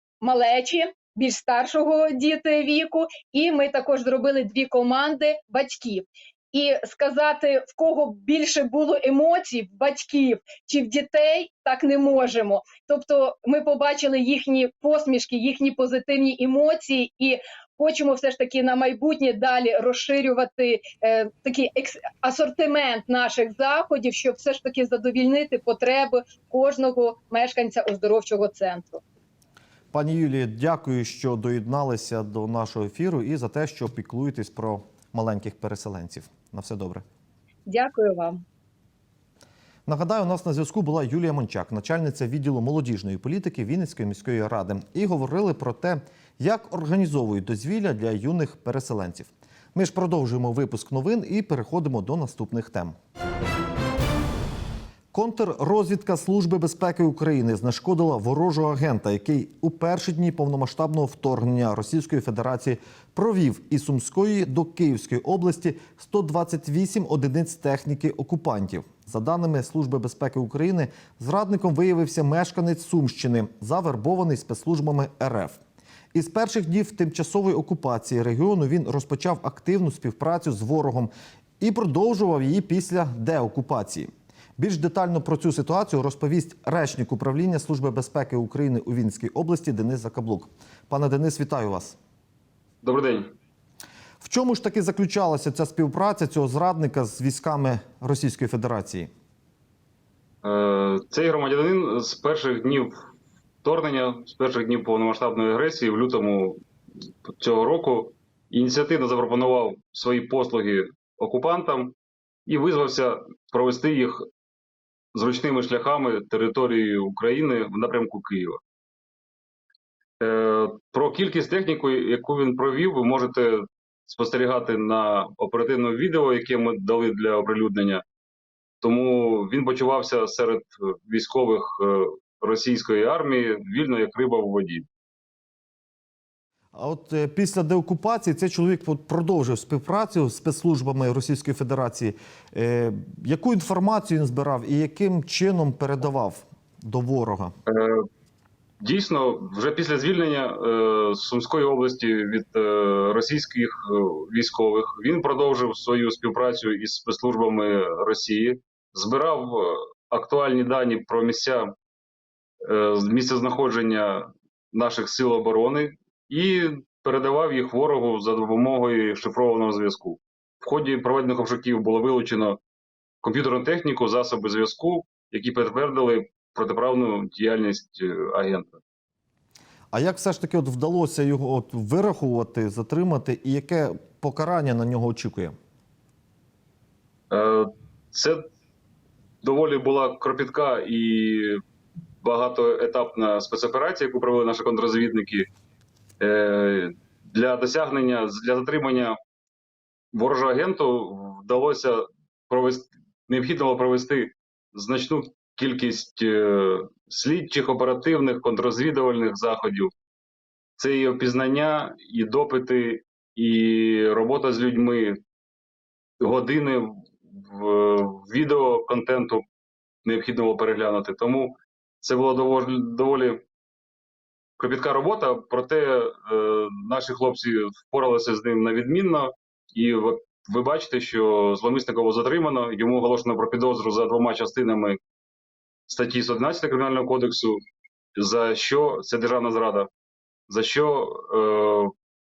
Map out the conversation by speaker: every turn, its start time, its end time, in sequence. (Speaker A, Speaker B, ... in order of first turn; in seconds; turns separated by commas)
Speaker A: 0.2-29.0, Speaker B: 29.9-37.0, Speaker A: 37.7-38.4, Speaker B: 39.9-53.0, Speaker B: 55.1-75.6, Speaker B: 76.1-92.0, Speaker C: 92.8-93.3, Speaker B: 94.2-99.1, Speaker C: 100.4-102.9, Speaker C: 103.6-106.6, Speaker C: 107.2-111.9, Speaker C: 112.5-114.3, Speaker C: 115.1-118.6, Speaker C: 120.2-128.0, Speaker C: 128.8-134.9, Speaker B: 136.7-147.5, Speaker C: 147.7-148.1, Speaker C: 148.8-161.7, Speaker C: 162.6-172.6, Speaker C: 173.2-178.8, Speaker B: 179.9-185.6, Speaker C: 187.3-188.4, Speaker C: 189.4-191.6, Speaker C: 192.2-195.5, Speaker C: 196.2-199.2, Speaker C: 200.1-209.9, Speaker C: 210.8-215.2, Speaker C: 216.2-219.4, Speaker C: 220.0-223.4, Speaker C: 224.6-235.0, Speaker C: 235.9-237.6, Speaker C: 238.2-239.9, Speaker C: 240.5-241.9